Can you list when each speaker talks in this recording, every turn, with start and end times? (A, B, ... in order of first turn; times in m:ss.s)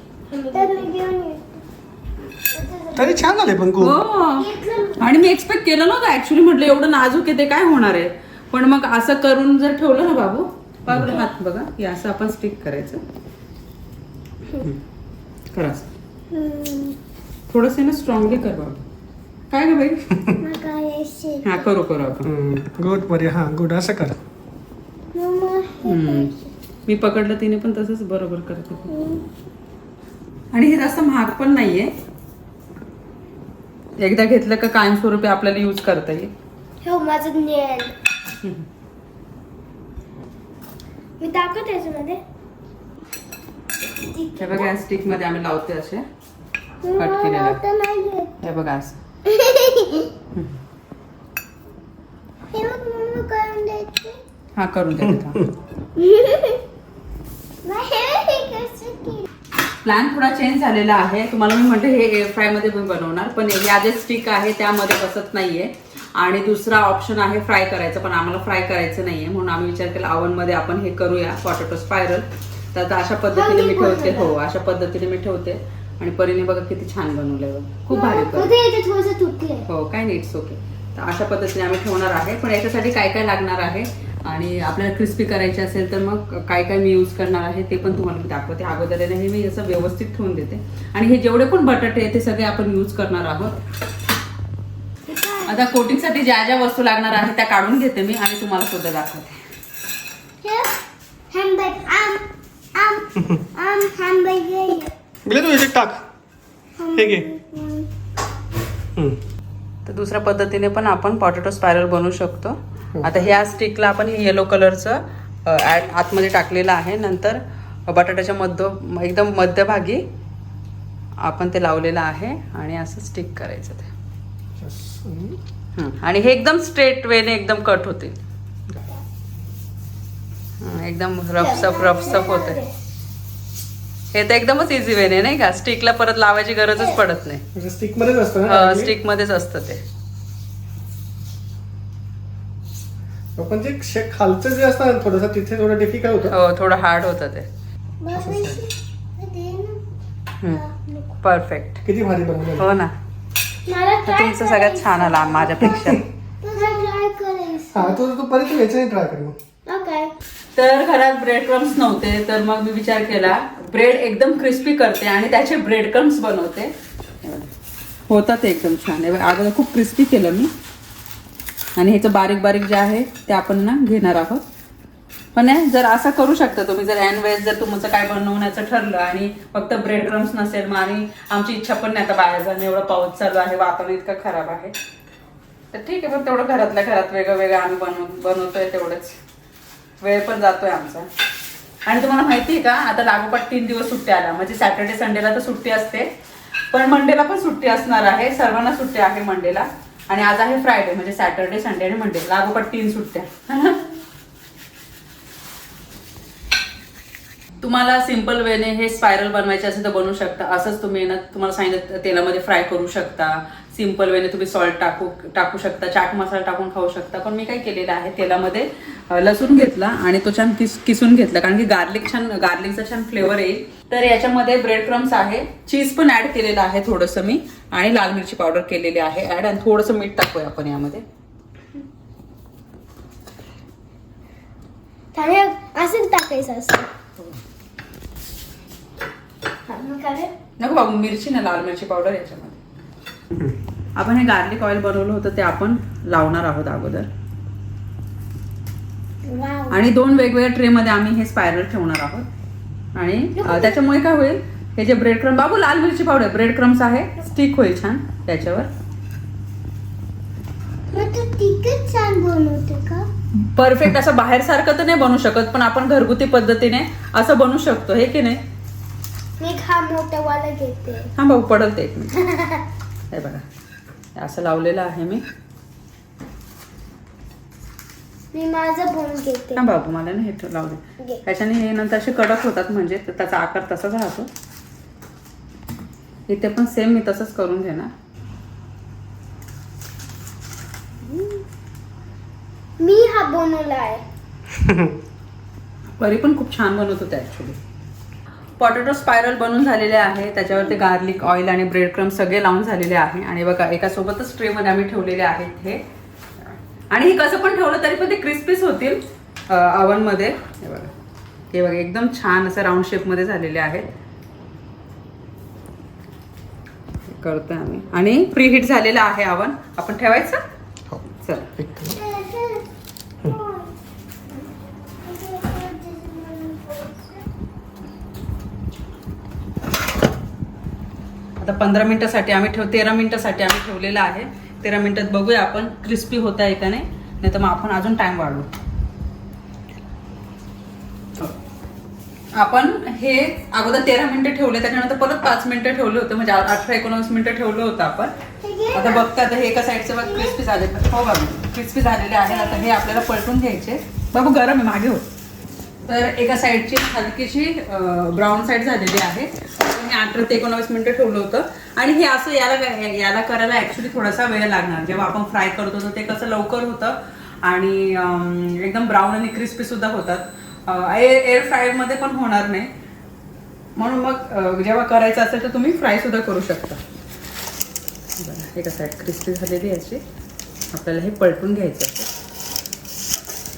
0:00.3-0:01.6 A
0:02.5-0:03.3 A
0:03.0-0:04.0 B
0:03.8-0:13.0 C
0:04.4-0:05.0 A
0:14.5-0:14.8 C
0:15.5-0:15.9 C
0:16.3-0:17.0 A
0:17.5-0:18.8 C
0:19.5-0:20.2 C
0:20.4-0:21.6 A
0:21.4-0:22.3 C
0:22.2-0:24.2 B
0:25.1-0:26.5 A
0:25.8-0:26.3 C
0:26.8-0:28.9 C
0:28.9-0:29.2 A
0:30.5-0:31.9 C
0:34.0-0:36.3 C
0:36.8-0:37.9 A
0:41.2-0:42.2 A
0:44.0-0:44.7 A
0:44.4-0:46.0 C
0:46.8-0:48.3 A
0:47.0-0:47.6 C
0:48.4-0:49.0 C
0:49.2-0:50.1 A
0:52.5-0:54.2 A
0:54.6-0:55.5 C
0:56.0-0:56.6 A
0:57.6-0:59.2 A
0:59.8-1:18.5 C
1:13.3-1:14.4 A
1:17.9-1:19.6 A
1:19.7-1:33.6 C
1:35.1-1:35.6 A
1:35.5-1:39.4 C
1:40.4-1:40.7 A
1:41.3-1:44.9 A
1:45.2-1:46.0 B
1:46.8-1:47.9 A
1:46.9-1:47.2 B
1:49.8-2:00.0 C
2:01.2-2:03.9 C
2:04.6-2:05.4 B
2:05.8-2:08.2 C
2:10.6-2:12.6 C
2:11.4-2:12.7 A
2:14.1-2:17.4 C
2:17.5-2:18.9 B
2:18.4-2:19.8 C
2:23.4-2:26.3 B
2:26.3-2:27.5 C
2:28.0-2:29.8 A
2:28.1-2:28.6 B
2:30.5-2:31.1 A
2:31.2-2:31.8 C
2:31.8-2:32.7 B
2:32.6-2:32.9 C
2:33.6-2:38.0 A
2:34.0-2:36.0 C
2:37.7-2:39.4 B
2:39.6-2:40.1 A
2:40.6-2:47.5 C
2:48.1-2:50.5 C
2:51.8-2:54.4 C
2:55.3-3:04.7 C
3:05.7-3:09.2 C
3:10.0-3:11.1 C
3:11.8-3:16.1 C
3:16.7-3:23.9 C
3:27.6-3:51.0 C
3:55.1-3:56.9 A
3:59.7-4:00.3 A
4:00.6-4:02.6 C
4:04.0-4:07.1 C
4:09.2-4:09.8 A
4:09.7-4:12.3 C
4:12.9-4:18.7 C
4:13.4-4:13.8 A
4:20.9-4:23.1 A
4:23.5-4:28.4 C
4:29.4-4:31.1 A
4:31.2-4:32.3 C
4:32.2-4:32.6 A
4:33.1-4:33.4 C
4:34.2-4:35.2 C
4:38.3-4:39.6 A
4:39.5-4:44.3 C
4:46.3-4:47.9 C
4:51.0-4:51.4 A
4:52.8-4:54.0 A
4:56.0-4:57.6 C
4:58.6-5:05.8 C
5:06.9-5:10.9 C
5:11.5-5:13.9 C
5:17.1-5:20.4 C
5:21.2-5:21.5 C
5:21.6-5:22.0 B
5:21.9-5:22.7 A
5:23.2-5:23.7 A
5:25.0-5:27.2 A
5:31.4-5:38.5 C
5:42.3-5:48.1 C
5:48.4-5:49.0 A
5:48.7-5:55.0 C
5:50.0-5:50.4 A
5:52.4-5:52.7 A
5:55.9-6:12.7 C
6:13.8-6:16.8 C
6:18.2-6:20.0 C
6:20.7-6:22.1 C